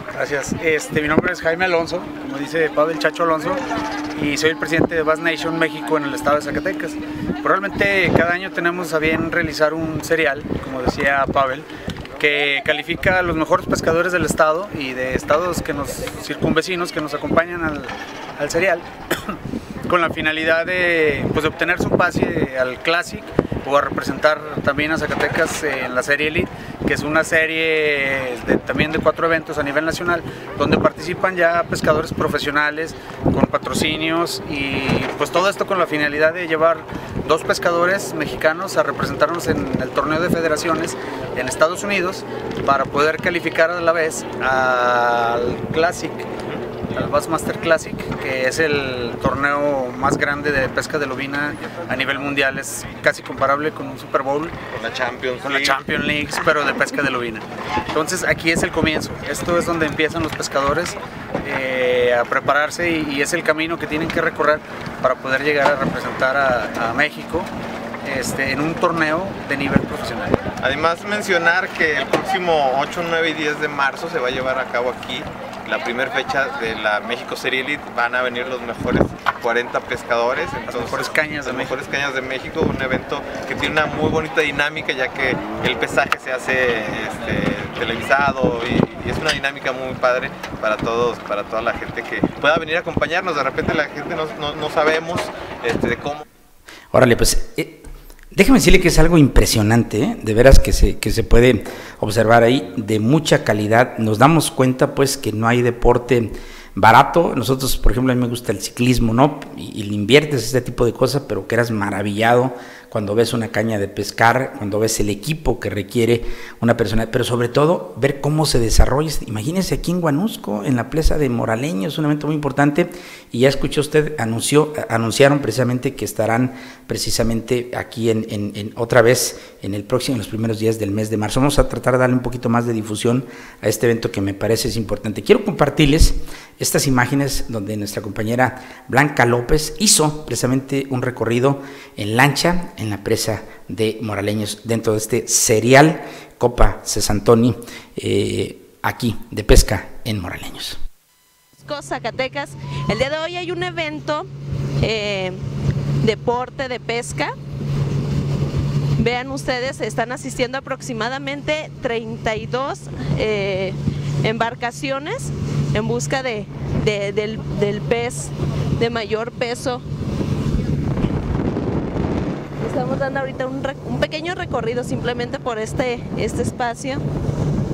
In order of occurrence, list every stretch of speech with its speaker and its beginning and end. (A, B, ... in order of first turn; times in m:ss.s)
0:00.1-0:11.7 A
0:12.2-0:46.3 A
0:46.9-0:54.6 A
0:54.7-0:55.8 B
0:55.4-1:07.5 A
1:08.0-1:10.4 A
1:10.6-1:36.2 B
1:20.6-1:21.8 A
1:36.9-2:30.8 C
2:31.6-2:34.3 D
2:34.8-2:35.4 D
2:36.0-2:37.3 D
2:39.0-2:49.8 D
2:52.6-2:57.0 D